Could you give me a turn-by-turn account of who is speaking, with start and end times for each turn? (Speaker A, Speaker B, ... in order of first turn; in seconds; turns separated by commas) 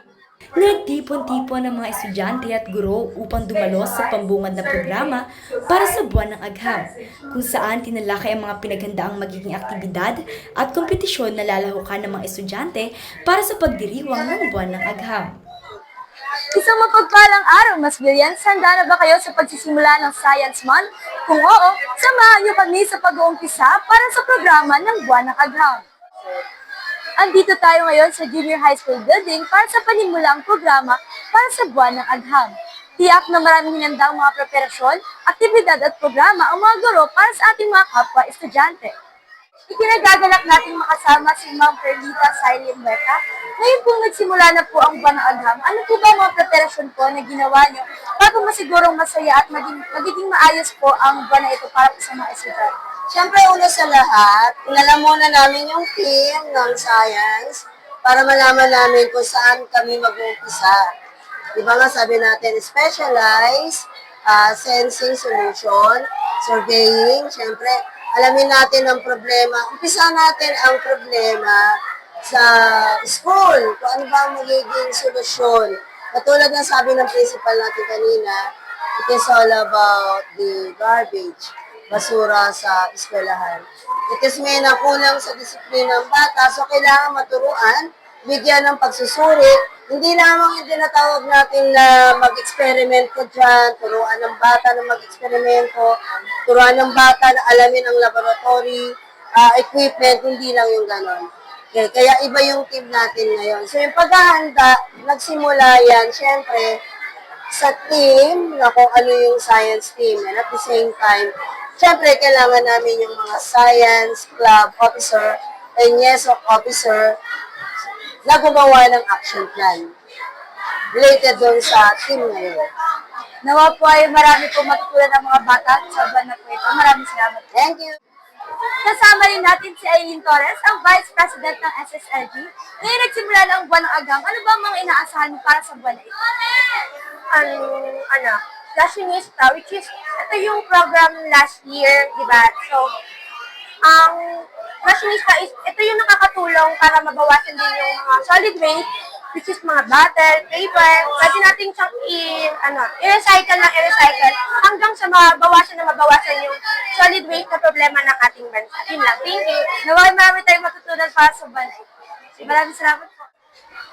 Speaker A: 0.5-15.3, Speaker B: 16.5-25.9, Speaker B: 27.2-38.9, Speaker B: 39.7-52.9, Speaker C: 53.1-60.8, Speaker C: 61.5-106.8, Speaker C: 107.5-117.2, Speaker C: 118.2-119.9, Speaker C: 121.0-122.6, Speaker B: 123.4-127.5, Speaker C: 127.5-128.0, Speaker B: 128.8-136.1, Speaker D: 137.3-142.9, Speaker D: 143.8-159.7, Speaker B: 159.7-161.8, Speaker B: 162.4-163.3